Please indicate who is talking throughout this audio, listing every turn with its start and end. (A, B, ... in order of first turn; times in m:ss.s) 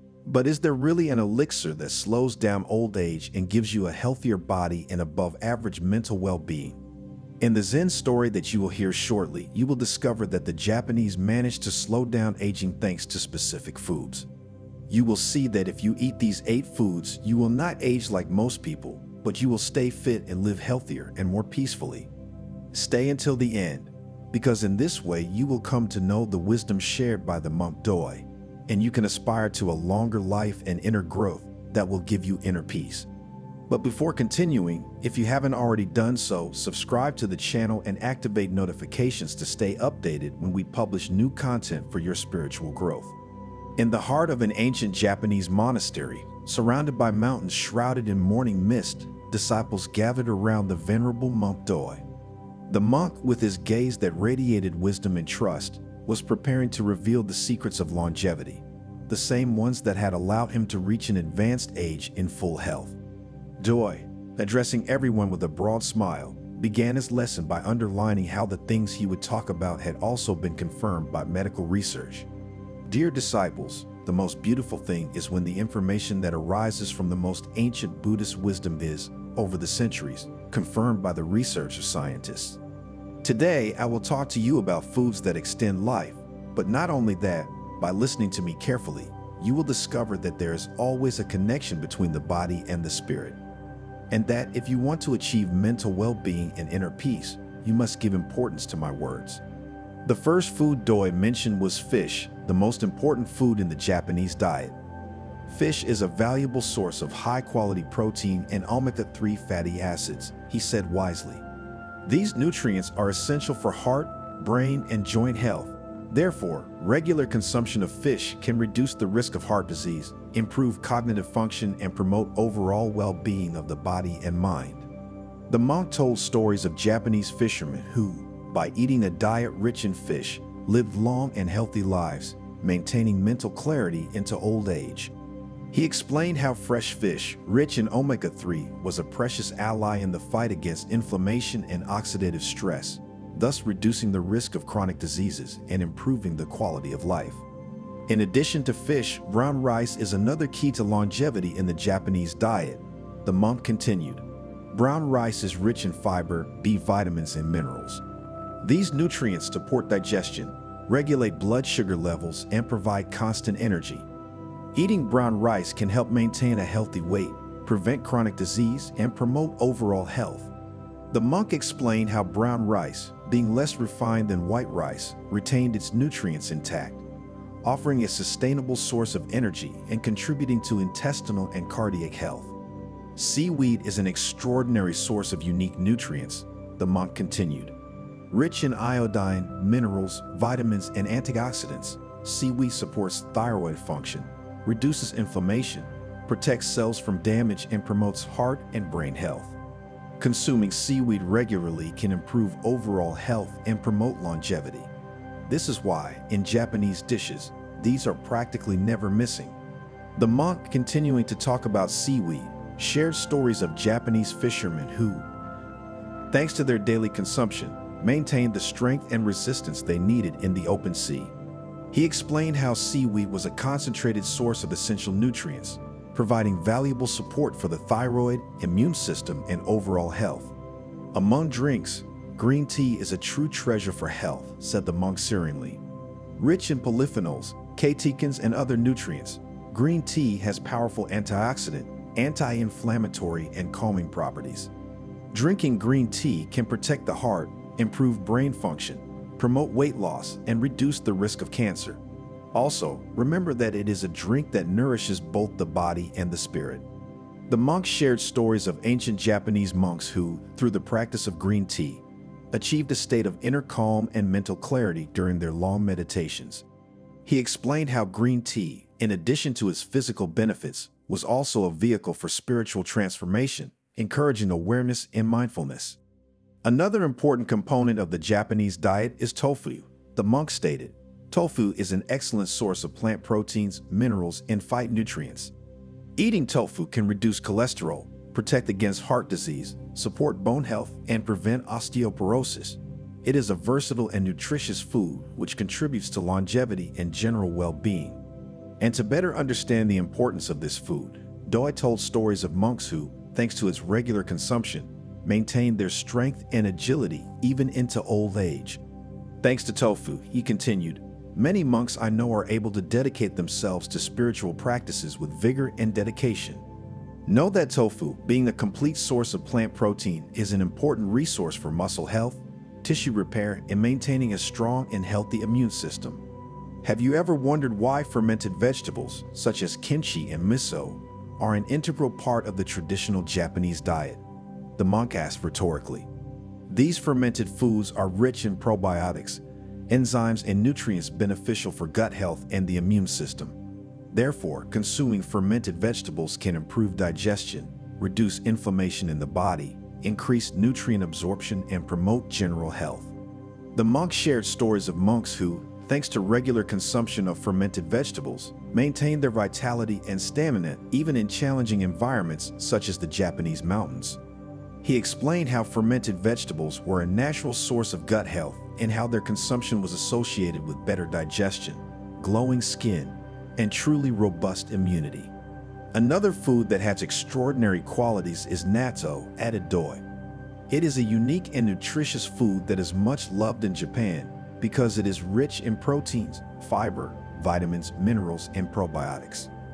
0:00.2-0:06.8 A
0:07.4-0:14.3 A
0:14.9-0:22.1 A
0:22.7-0:33.1 A
0:33.7-0:43.1 A
0:43.8-0:52.0 A
0:52.7-1:03.0 A
1:03.6-1:12.3 A
1:12.8-1:22.6 A
1:23.2-1:33.4 A
1:34.1-1:39.4 A
1:40.0-1:44.8 A
1:45.5-1:51.4 A
1:52.0-2:04.8 A
2:05.5-2:15.1 A
2:15.7-2:27.4 A
2:28.1-2:38.0 A
2:38.6-2:44.1 A
2:44.7-2:50.5 A
2:51.1-2:57.0 A
2:57.6-3:02.5 A
3:03.2-3:07.7 A
3:08.3-3:19.6 A
3:20.2-3:24.9 A
3:25.5-3:29.6 A
3:30.2-3:35.3 A
3:36.3-3:41.3 A
3:41.9-3:50.5 A
3:51.1-3:55.8 A
3:56.4-4:04.7 A
4:05.3-4:12.0 A
4:12.5-4:16.8 A
4:17.5-4:26.6 A
4:27.2-4:36.0 A
4:36.6-4:45.5 A
4:46.2-4:58.2 A
4:58.8-5:08.8 A
5:09.4-5:16.6 A
5:17.2-5:26.2 A
5:26.8-5:34.2 A
5:34.8-5:36.1 A
5:36.7-5:43.6 A
5:44.1-5:53.1 A
5:53.7-6:04.2 A
6:04.8-6:15.3 A
6:15.9-6:20.0 A
6:20.7-6:29.5 A